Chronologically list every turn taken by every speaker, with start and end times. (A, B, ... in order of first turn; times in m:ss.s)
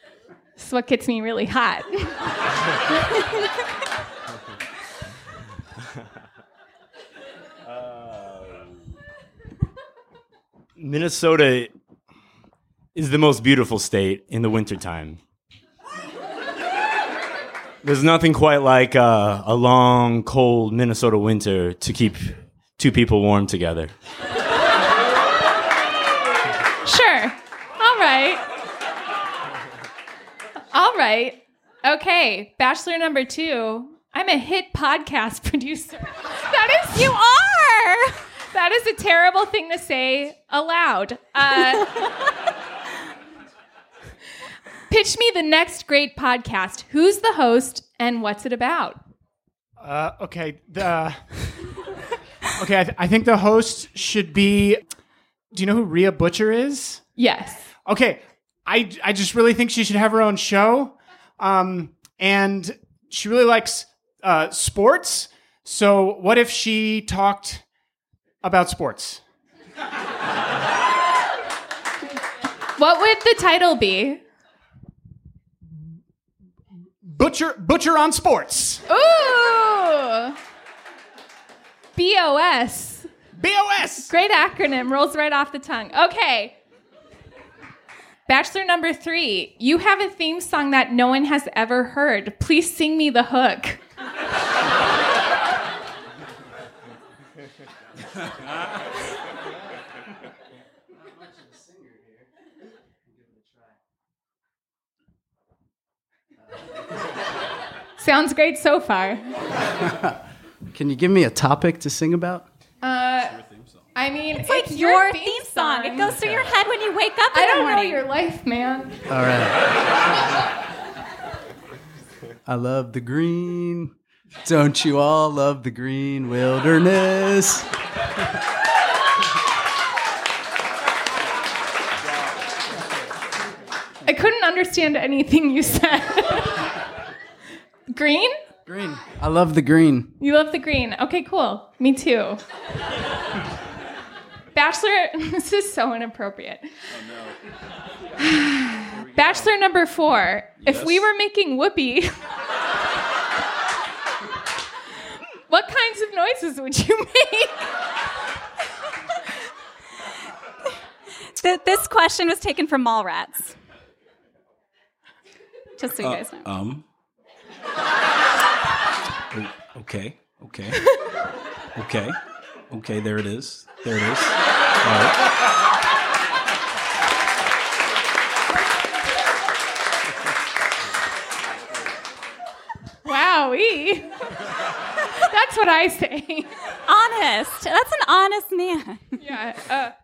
0:00.6-0:02.2 A
0:07.7-0:08.7 B
0:10.8-0:11.7 B
0:13.0-0:15.2 B
0:17.8-0:24.0 B
0:26.8-0:28.4 A
0:30.7-0:37.2 A
0:36.9-0:38.2 C
0:38.5-0:41.9 A
0:44.9-0:49.0 A
0:49.8-0:51.4 D
0:52.6-0:54.8 D
0:55.5-0:57.1 D
0:57.2-0:57.7 A
0:57.8-1:07.6 D
1:08.4-1:09.2 D
1:12.8-1:14.2 A
1:17.0-1:18.8 D
1:18.9-1:20.4 A
1:22.0-1:23.1 A
1:23.4-1:24.1 D
1:24.1-1:26.6 A
1:28.3-1:33.8 A
1:48.0-1:49.3 A
1:50.7-1:52.5 E
1:52.8-1:53.4 A
1:54.0-1:56.1 A
1:54.4-1:58.0 C
1:57.3-1:59.0 A
1:59.1-1:59.8 E
2:02.5-2:03.9 E
2:04.4-2:07.7 E
2:14.0-2:16.6 A
2:17.9-2:18.4 A
2:18.7-2:20.1 E
2:20.2-2:22.4 A
2:24.5-2:26.8 A
2:28.2-2:32.2 A
2:35.5-2:37.7 A
2:41.4-2:43.6 C
2:45.8-2:46.5 C
2:46.0-2:46.9 F
2:49.3-2:51.0 F
2:51.8-2:52.2 F
2:52.7-2:55.2 F
3:03.0-3:04.1 A
3:05.2-3:06.5 A
3:06.9-3:09.0 C
3:09.2-3:10.0 A